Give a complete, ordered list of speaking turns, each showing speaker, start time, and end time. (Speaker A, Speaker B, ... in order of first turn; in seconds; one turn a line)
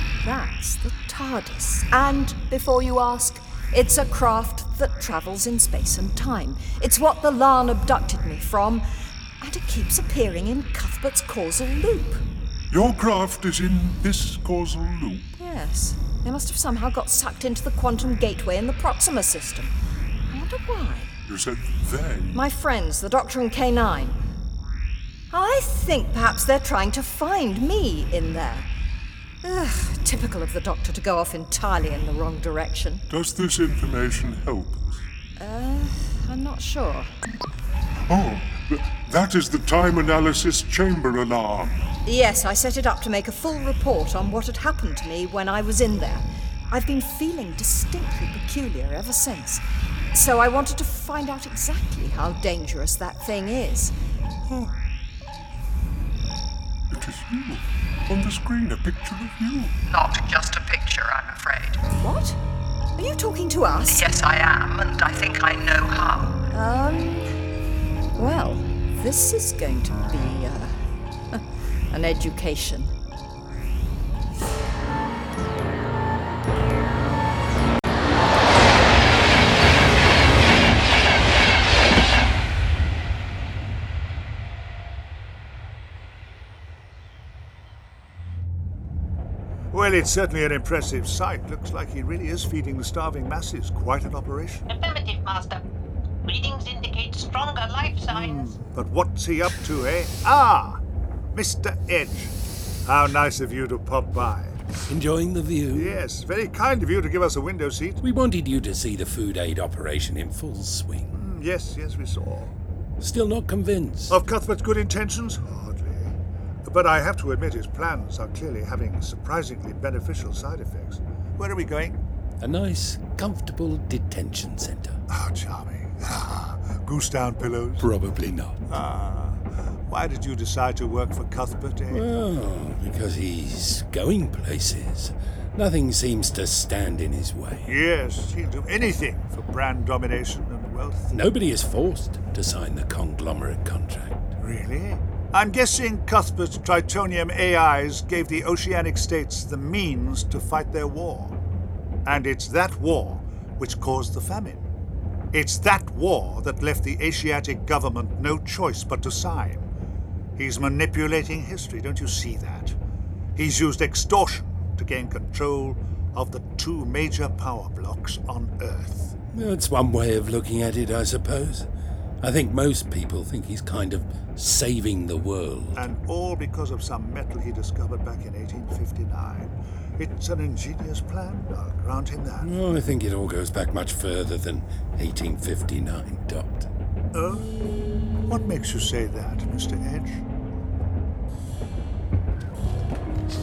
Speaker A: 0.2-8.9
Speaker A: 9.4-12.2
Speaker B: 12.7-15.3
Speaker A: 15.4-19.7
Speaker A: 20.3-21.1
Speaker B: 21.3-22.4
Speaker A: 22.4-24.2
Speaker A: 25.3-28.7
Speaker A: 29.4-33.0
Speaker B: 33.1-35.0
Speaker A: 35.4-37.1
Speaker B: 38.1-41.8
Speaker A: 42.0-49.6
Speaker A: 50.1-53.9
Speaker B: 56.9-59.8
Speaker C: 59.9-61.8
Speaker A: 62.0-62.4
Speaker A: 63.0-64.1
Speaker C: 63.9-66.4
Speaker A: 66.5-67.3
Speaker A: 68.2-70.8
Speaker A: 71.3-72.9
Speaker D: 89.7-94.7
Speaker E: 94.7-95.6
Speaker E: 96.3-98.6
Speaker D: 98.1-100.8
Speaker D: 101.3-102.3
Speaker D: 102.8-104.6
Speaker F: 104.9-106.0
Speaker D: 105.7-108.0
Speaker F: 108.0-111.1
Speaker D: 111.1-112.5
Speaker F: 113.0-114.2
Speaker D: 114.1-122.0
Speaker F: 122.4-125.0
Speaker D: 125.1-127.9
Speaker F: 127.8-128.6
Speaker D: 128.7-132.1
Speaker F: 131.9-137.7
Speaker D: 137.7-141.1
Speaker F: 141.1-144.2
Speaker D: 144.4-151.4
Speaker D: 152.1-154.7
Speaker D: 155.3-159.7
Speaker D: 160.4-162.8
Speaker D: 163.4-169.1
Speaker F: 169.3-171.7
Speaker F: 172.2-175.8
Speaker D: 175.8-182.5
Speaker F: 182.4-186.7
Speaker D: 187.1-187.5
Speaker D: 188.3-190.2